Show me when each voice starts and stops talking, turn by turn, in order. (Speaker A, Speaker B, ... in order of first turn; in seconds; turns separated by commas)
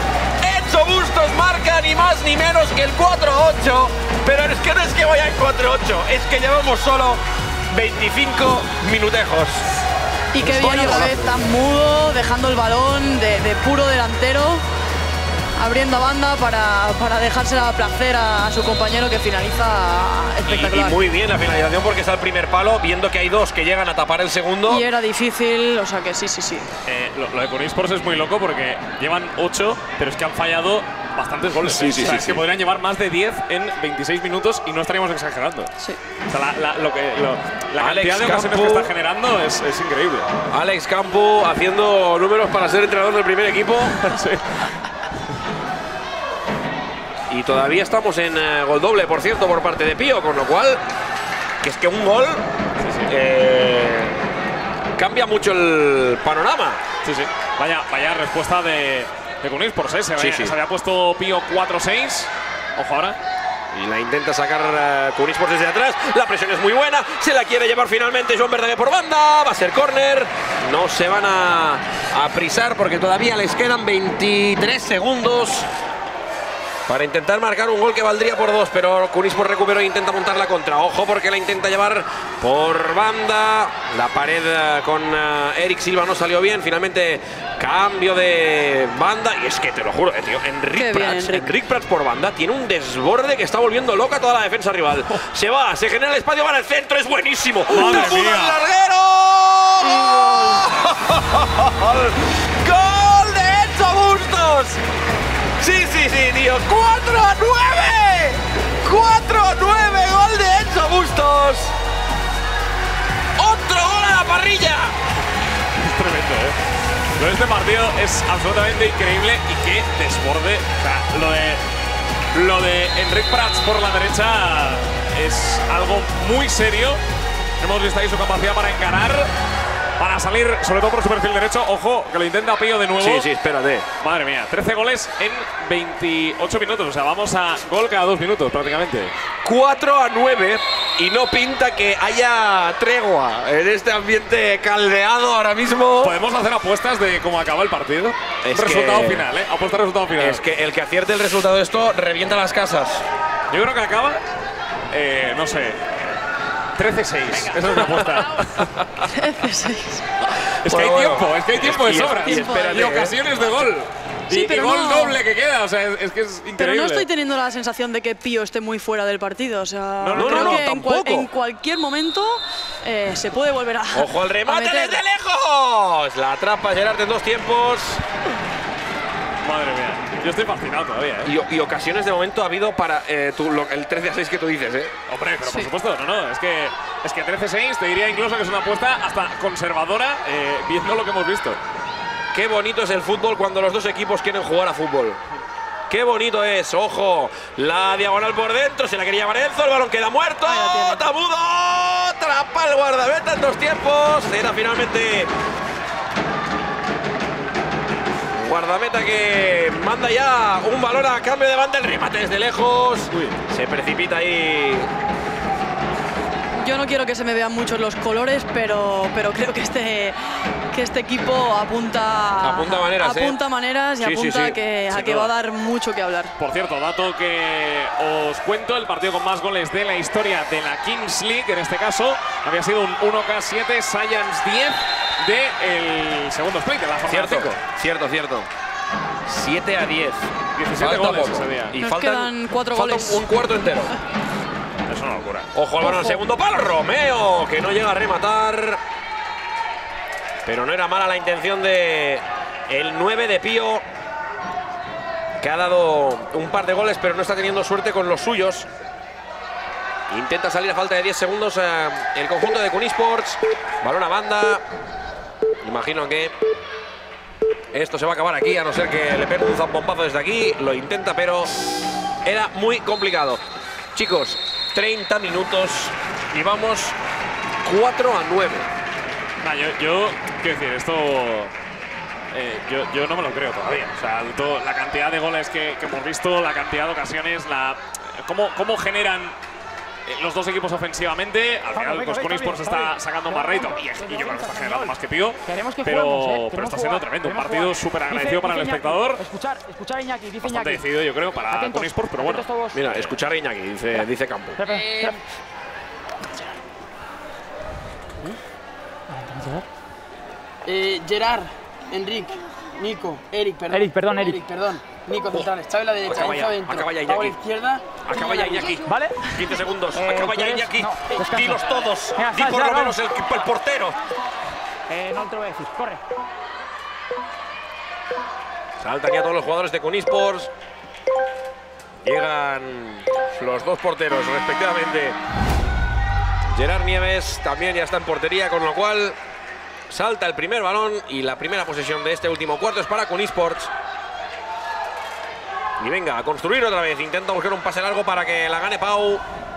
Speaker A: 0.4-9.6, Speaker B: 10.3-14.6, Speaker A: 10.4-11.1, Speaker B: 15.6-21.0, Speaker A: 20.5-24.8, Speaker B: 24.6-26.7, Speaker C: 26.9-35.7, Speaker A: 31.6-32.4, Speaker C: 36.3-40.3, Speaker A: 37.8-38.9, Speaker A: 40.5-44.0, Speaker C: 44.0-44.6, Speaker A: 47.3-50.8, Speaker A: 51.6-52.4, Speaker C: 52.8-53.1, Speaker A: 53.1-54.2, Speaker A: 55.0-56.8, Speaker C: 57.0-63.2, Speaker A: 60.2-60.5, Speaker A: 63.7-75.7, Speaker A: 76.9-104.8, Speaker B: 90.7-91.5, Speaker B: 97.7-98.2, Speaker C: 97.7-98.6, Speaker B: 99.8-100.6, Speaker A: 105.6-111.7, Speaker A: 113.4-114.9, Speaker C: 115.8-116.5, Speaker C: 117.2-121.6, Speaker C: 122.3-127.0, Speaker C: 127.6-129.3, Speaker C: 130.0-133.3, Speaker A: 133.0-133.9, Speaker C: 134.0-139.1, Speaker A: 139.4-146.1, Speaker C: 146.0-150.4, Speaker A: 148.4-149.2, Speaker A: 150.2-153.0, Speaker C: 153.5-154.2, Speaker C: 154.9-155.8, Speaker C: 156.8-158.7, Speaker B: 159.1-160.0, Speaker C: 160.6-167.1, Speaker A: 160.6-163.2, Speaker B: 162.1-163.0, Speaker B: 164.3-165.2, Speaker B: 166.6-175.0, Speaker C: 170.0-170.6, Speaker A: 170.1-171.3, Speaker A: 173.9-178.0, Speaker C: 179.4-181.3, Speaker A: 181.2-184.9, Speaker C: 185.1-191.6, Speaker B: 185.4-185.7, Speaker A: 192.3-195.2, Speaker A: 195.9-205.3, Speaker B: 200.4-201.0, Speaker A: 208.4-214.9, Speaker C: 213.1-213.3, Speaker B: 216.6-220.2, Speaker B: 220.7-226.3, Speaker A: 222.4-223.3, Speaker A: 224.0-224.6, Speaker C: 224.9-225.3, Speaker C: 226.4-237.6, Speaker A: 237.1-238.5, Speaker A: 239.3-243.9, Speaker C: 240.6-241.8, Speaker B: 241.8-243.2, Speaker C: 244.9-245.5, Speaker A: 245.5-248.8, Speaker B: 245.8-246.2, Speaker A: 250.4-253.8, Speaker A: 255.4-258.7, Speaker A: 260.1-264.6, Speaker A: 265.6-266.3, Speaker A: 267.7-271.5, Speaker A: 272.2-273.4, Speaker A: 273.9-276.9, Speaker A: 277.6-278.7, Speaker C: 279.4-281.5, Speaker C: 282.3-289.3, Speaker C: 290.1-299.2, Speaker D: 291.7-294.9, Speaker D: 295.4-300.8, Speaker C: 300.4-303.1, Speaker D: 301.5-302.8, Speaker A: 302.7-304.6, Speaker D: 304.6-305.2, Speaker E: 304.6-305.2, Speaker D: 309.1-309.6, Speaker E: 310.6-318.8, Speaker D: 313.7-314.4, Speaker A: 316.0-317.4, Speaker A: 318.0-323.9, Speaker D: 318.9-319.3, Speaker D: 319.9-322.9, Speaker D: 324.9-326.0, Speaker A: 328.8-330.5, Speaker A: 332.0-335.2, Speaker A: 336.5-339.2, Speaker A: 339.9-343.7, Speaker A: 345.8-349.2